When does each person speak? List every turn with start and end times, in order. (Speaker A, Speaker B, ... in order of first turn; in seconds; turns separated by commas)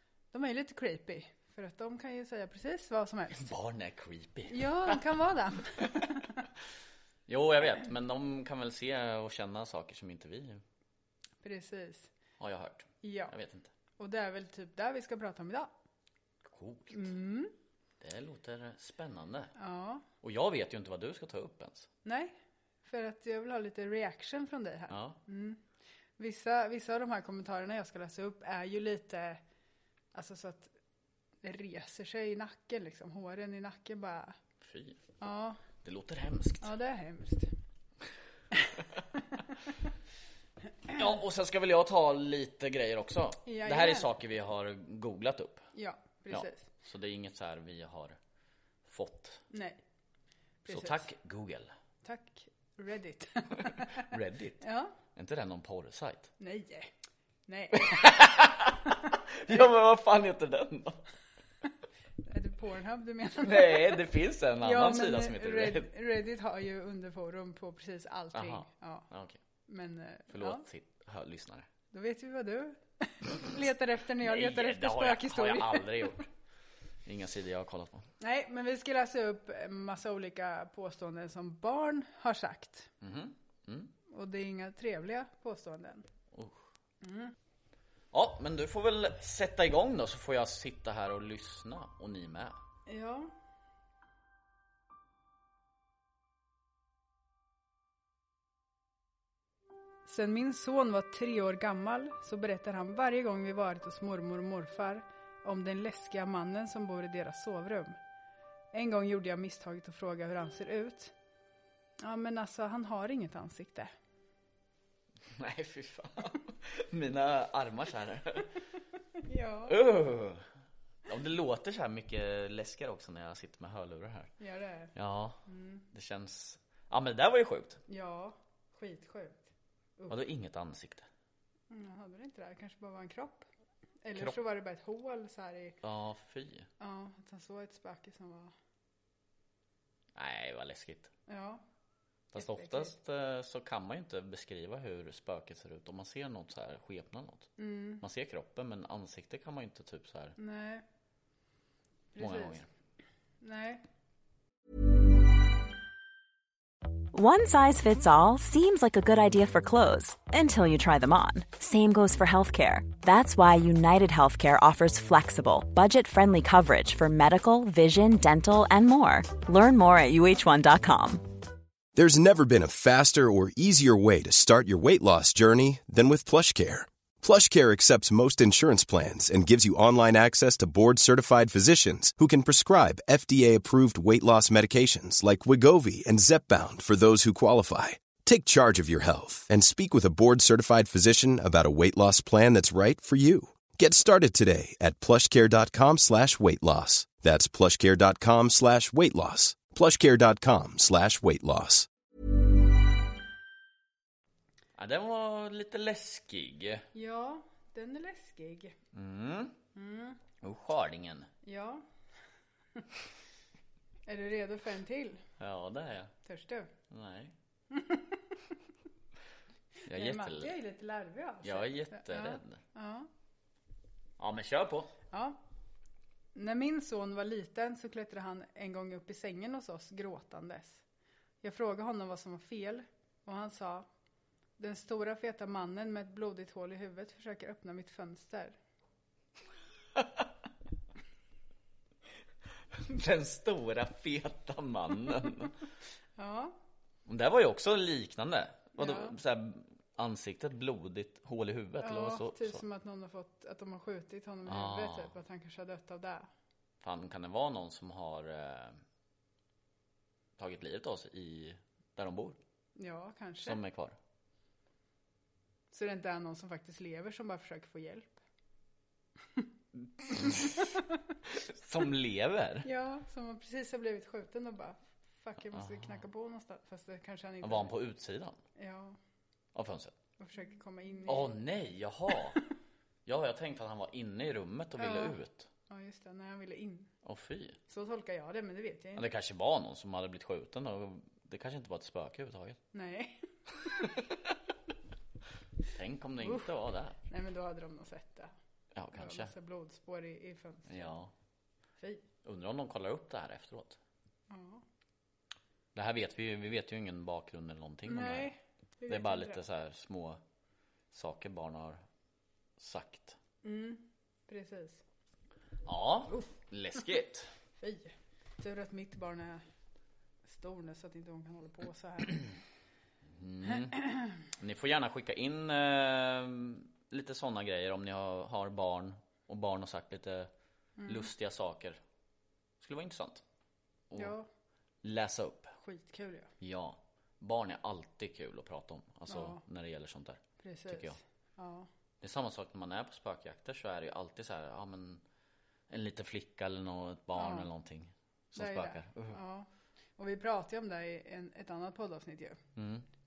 Speaker A: 0.3-3.5, Speaker B: 3.4-5.0, Speaker A: 4.5-6.4, Speaker B: 7.3-10.6, Speaker A: 11.4-12.1, Speaker B: 12.4-13.7, Speaker A: 13.0-13.3, Speaker A: 14.0-15.7, Speaker B: 16.4-17.1, Speaker A: 16.9-17.5, Speaker B: 18.0-19.5, Speaker A: 19.6-20.0, Speaker B: 20.2-21.9, Speaker A: 22.0-25.6, Speaker B: 24.9-25.2, Speaker A: 26.2-29.4, Speaker A: 30.1-30.7, Speaker A: 31.4-34.3, Speaker B: 34.6-35.0, Speaker A: 35.2-35.6, Speaker B: 35.8-36.7, Speaker A: 36.6-37.5, Speaker A: 38.7-39.4, Speaker B: 40.9-45.6, Speaker A: 43.4-44.1, Speaker A: 45.7-46.7, Speaker B: 46.3-48.1, Speaker B: 48.9-49.4, Speaker A: 49.5-49.8, Speaker A: 50.6-51.0, Speaker B: 50.7-51.7, Speaker A: 52.0-54.0, Speaker B: 54.0-54.6, Speaker A: 54.6-54.9, Speaker B: 55.1-56.3, Speaker A: 56.4-56.9, Speaker A: 57.5-58.2, Speaker B: 57.8-61.0, Speaker A: 62.2-64.0, Speaker B: 63.4-65.9, Speaker A: 64.6-69.1, Speaker B: 68.3-69.4, Speaker A: 69.7-70.6, Speaker B: 70.3-71.7, Speaker A: 71.9-76.2, Speaker B: 74.2-76.3, Speaker B: 77.0-78.1, Speaker A: 78.2-82.9, Speaker B: 83.0-83.9, Speaker A: 84.1-86.0, Speaker B: 86.3-86.6, Speaker A: 87.0-87.3, Speaker B: 88.1-92.5, Speaker A: 92.9-93.3, Speaker A: 100.0-108.0, Speaker A: 108.7-111.1, Speaker A: 112.0-113.9, Speaker B: 115.3-118.5, Speaker A: 119.2-119.8, Speaker B: 119.7-120.4, Speaker B: 121.1-124.3, Speaker A: 124.4-124.9, Speaker B: 124.9-125.4, Speaker A: 125.5-125.8, Speaker B: 125.9-127.8, Speaker A: 127.9-129.5, Speaker B: 130.1-131.1, Speaker A: 131.7-133.4, Speaker A: 134.0-135.8, Speaker B: 135.8-136.7, Speaker A: 136.8-138.5, Speaker B: 140.2-141.1, Speaker A: 141.3-141.6, Speaker B: 142.3-150.4, Speaker A: 142.3-143.0, Speaker A: 147.6-148.0, Speaker A: 150.4-150.8, Speaker A: 152.1-152.6, Speaker B: 152.2-152.7, Speaker A: 153.4-153.8, Speaker C: 157.1-171.1, Speaker D: 171.9-201.9, Speaker B: 204.8-206.8, Speaker A: 206.9-208.7, Speaker B: 208.9-209.5, Speaker A: 209.7-210.2, Speaker B: 210.4-211.3, Speaker A: 211.4-211.8, Speaker A: 214.1-215.2, Speaker B: 215.4-216.1, Speaker A: 216.2-216.7, Speaker B: 216.9-217.3, Speaker A: 217.7-218.3, Speaker A: 219.8-223.1, Speaker B: 219.8-220.5, Speaker B: 221.4-222.6, Speaker B: 224.2-224.9, Speaker A: 225.1-225.4, Speaker A: 226.3-230.8, Speaker A: 231.4-233.8, Speaker A: 234.6-238.6, Speaker B: 242.8-245.5, Speaker A: 246.2-246.6, Speaker B: 247.1-252.6, Speaker A: 248.8-249.2, Speaker A: 251.8-256.3, Speaker B: 254.4-255.1, Speaker B: 256.8-258.8, Speaker B: 260.4-262.4, Speaker A: 262.8-263.6, Speaker B: 263.4-264.0, Speaker A: 265.7-268.2, Speaker B: 270.1-270.6, Speaker A: 270.2-270.8, Speaker B: 271.3-272.7, Speaker A: 272.6-277.7, Speaker B: 275.5-275.9, Speaker B: 277.4-278.4, Speaker A: 278.6-279.0, Speaker B: 279.5-279.9, Speaker A: 280.2-281.4, Speaker B: 281.1-282.4, Speaker B: 283.1-285.5, Speaker A: 284.8-286.9, Speaker B: 287.0-287.6, Speaker A: 287.7-289.1, Speaker B: 288.9-292.6, Speaker A: 292.7-293.9, Speaker B: 295.7-297.0, Speaker A: 297.1-298.3, Speaker B: 298.7-299.3, Speaker A: 298.9-301.0, Speaker B: 300.7-301.1, Speaker B: 302.2-303.8, Speaker A: 304.3-304.6, Speaker B: 305.7-308.3, Speaker A: 307.9-309.4, Speaker B: 308.9-310.2, Speaker B: 310.9-311.8, Speaker B: 312.6-313.2, Speaker A: 313.4-314.8, Speaker B: 315.6-317.3, Speaker A: 317.6-319.4, Speaker A: 320.2-322.3, Speaker B: 323.1-330.3, Speaker A: 330.8-331.1, Speaker B: 330.9-331.8, Speaker B: 332.6-333.2, Speaker B: 333.9-334.1, Speaker A: 333.9-334.3, Speaker B: 334.8-335.5, Speaker A: 335.6-336.3, Speaker B: 336.4-341.0, Speaker A: 339.1-339.4, Speaker A: 340.4-341.7, Speaker B: 342.0-345.0, Speaker B: 345.7-349.2, Speaker A: 347.1-347.5, Speaker A: 348.4-352.4, Speaker B: 352.6-352.9